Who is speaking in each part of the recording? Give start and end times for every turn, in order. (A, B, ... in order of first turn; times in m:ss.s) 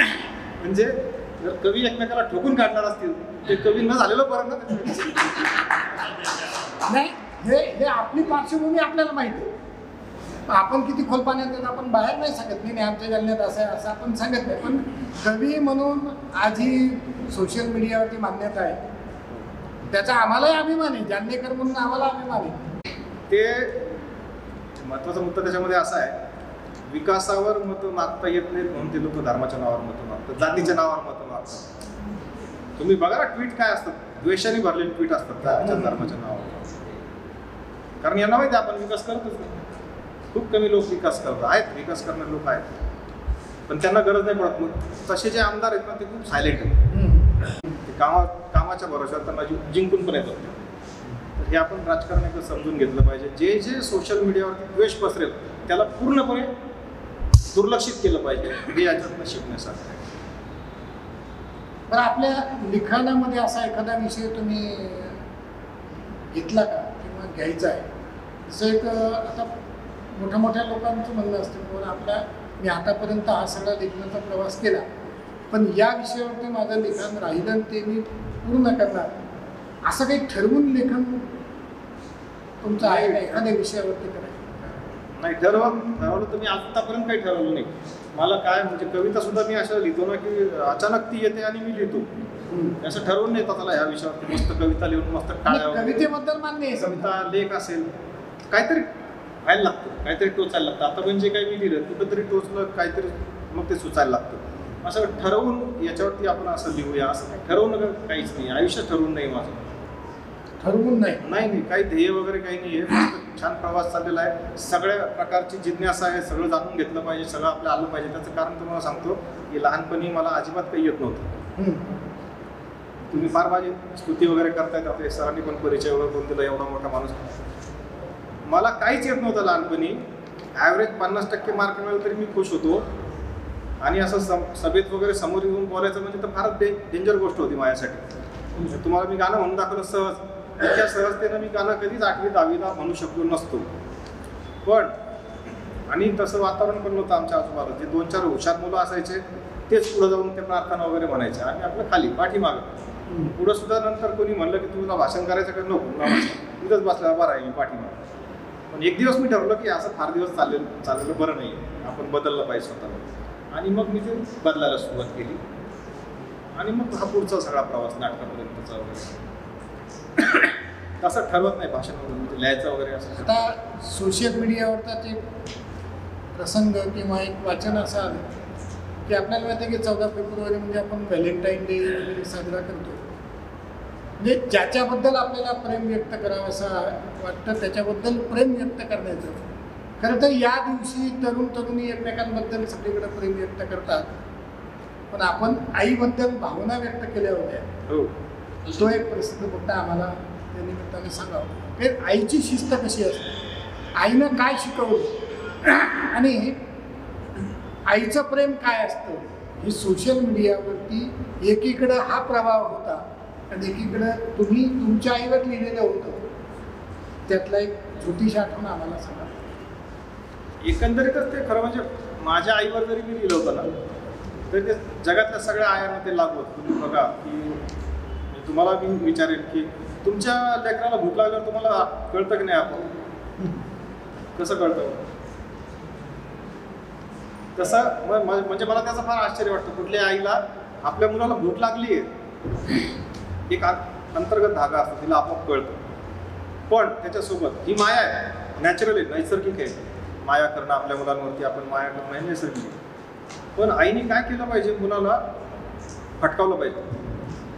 0:00.6-0:05.5 A
0:06.8-0:09.5 B
0:10.5-0:18.8 B
0:19.9-0:22.6 B
0:23.3-0:23.9 A
0:24.8-0:26.2 A
0:26.9-0:31.7 A
0:32.8-0:36.6 A
0:35.6-0:36.0 B
0:38.0-0:39.6 A
0:40.3-0:42.8 A
0:43.7-0:46.8 A
0:46.9-0:47.3 B
0:47.8-0:50.6 A
0:51.4-0:56.5 A
0:57.5-1:00.0 A
1:01.9-1:05.2 B
1:06.3-1:07.9 B
1:08.5-1:09.5 B
1:10.1-1:14.8 B
1:15.5-1:19.1 B
1:19.8-1:21.3 B
1:22.6-1:24.7 B
1:22.8-1:23.4 A
1:25.2-1:32.1 A
1:25.5-1:25.9 B
1:32.5-1:32.8 B
1:32.8-1:36.1 A
1:35.5-1:37.0 B
1:36.8-1:37.9 A
1:38.5-1:49.7 A
1:50.6-1:51.2 B
1:51.2-2:01.3 A
2:01.6-2:01.8 B
2:03.0-2:07.2 A
2:08.5-2:12.9 A
2:13.8-2:18.0 A
2:18.6-2:23.7 A
2:24.6-2:24.9 A
2:25.9-2:32.6 A
2:33.1-2:33.3 B
2:33.3-2:38.0 A
2:38.7-2:45.4 A
2:46.6-2:49.2 A
2:50.2-2:53.5 A
2:53.2-2:55.2 B
2:56.3-2:58.2 B
2:59.0-3:03.0 B
3:04.2-3:09.4 B
3:10.0-3:14.1 B
3:15.1-3:17.7 B
3:18.7-3:23.3 B
3:23.9-3:26.6 B
3:27.9-3:36.2 B
3:37.3-3:39.3 B
3:40.6-3:43.7 A
3:44.5-3:47.6 A
3:48.3-3:52.9 A
3:54.4-3:55.0 A
3:57.5-4:02.1 A
4:03.5-4:05.8 A
4:06.7-4:12.8 A
4:13.6-4:15.2 A
4:16.2-4:16.9 A